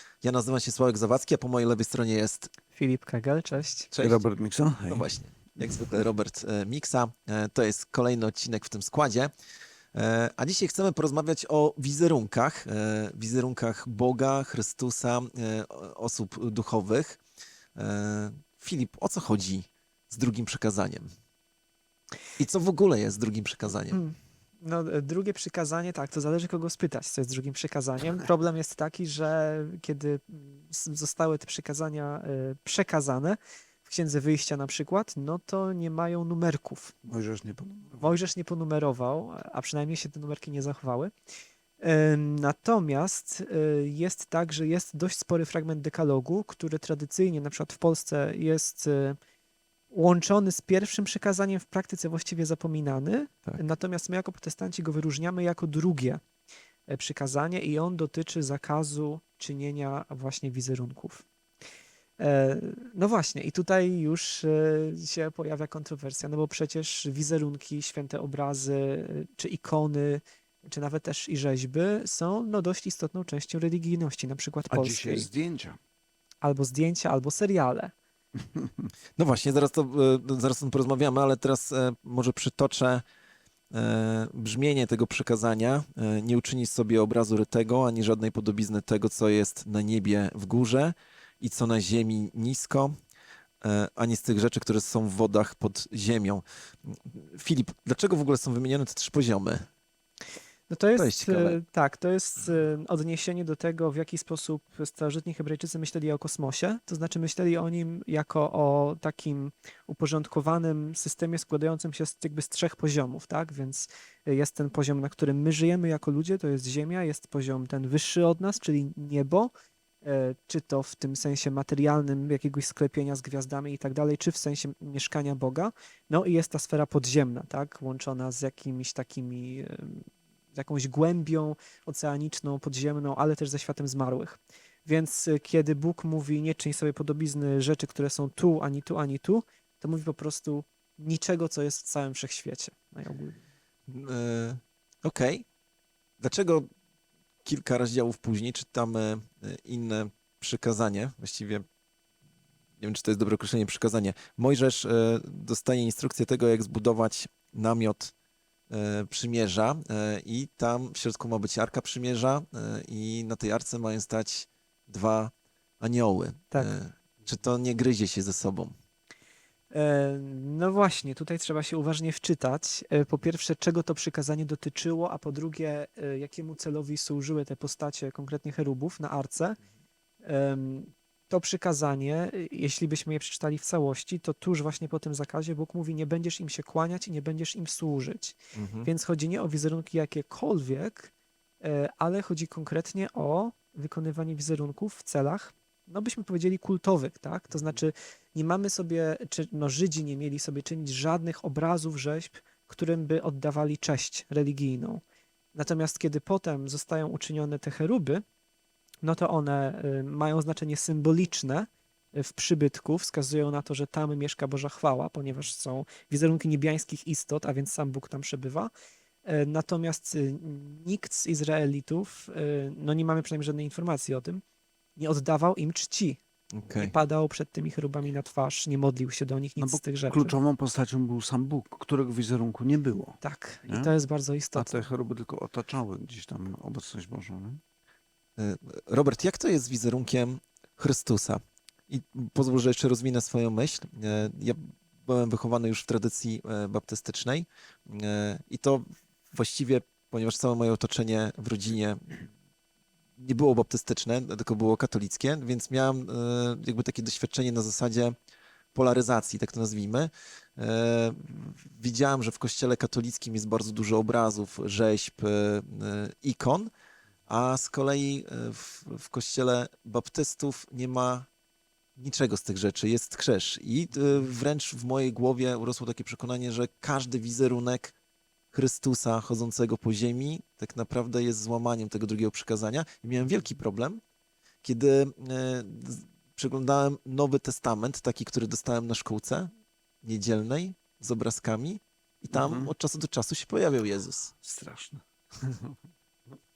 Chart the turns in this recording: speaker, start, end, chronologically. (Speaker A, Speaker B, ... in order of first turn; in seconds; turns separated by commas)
Speaker A: 0.2-2.5, Speaker B: 2.7-3.9, Speaker A: 3.9-4.3, Speaker C: 4.0-6.0, Speaker A: 4.9-9.3, Speaker A: 9.9-17.2, Speaker A: 17.8-21.1, Speaker A: 22.4-24.0, Speaker B: 23.9-36.9, Speaker C: 37.0-38.1, Speaker B: 38.0-41.1, Speaker B: 41.8-49.2, Speaker B: 49.9-56.2, Speaker B: 56.9-61.3, Speaker B: 62.2-75.3, Speaker C: 74.7-75.8, Speaker B: 76.4-77.9, Speaker C: 78.6-78.9, Speaker A: 79.2-83.0, Speaker A: 83.7-92.9, Speaker A: 93.6-99.7, Speaker B: 100.7-119.5, Speaker A: 101.0-101.6, Speaker B: 120.0-143.4, Speaker A: 143.9-145.4, Speaker A: 146.2-146.7, Speaker A: 147.4-151.6, Speaker A: 152.8-158.1, Speaker A: 158.7-168.7, Speaker B: 169.7-179.6, Speaker B: 180.2-205.0, Speaker A: 188.5-188.9, Speaker B: 205.5-208.2, Speaker B: 209.0-218.7, Speaker B: 219.2-224.4, Speaker B: 225.0-226.2, Speaker A: 226.5-226.9, Speaker B: 226.7-230.3, Speaker C: 229.6-233.9, Speaker B: 233.2-234.9, Speaker C: 234.6-237.6, Speaker A: 238.4-252.2, Speaker A: 253.2-258.1, Speaker A: 258.7-266.7, Speaker A: 267.3-271.3, Speaker A: 272.0-277.9, Speaker A: 278.5-284.0, Speaker A: 284.6-289.5, Speaker A: 290.0-294.3, Speaker C: 292.3-292.7, Speaker C: 294.4-295.8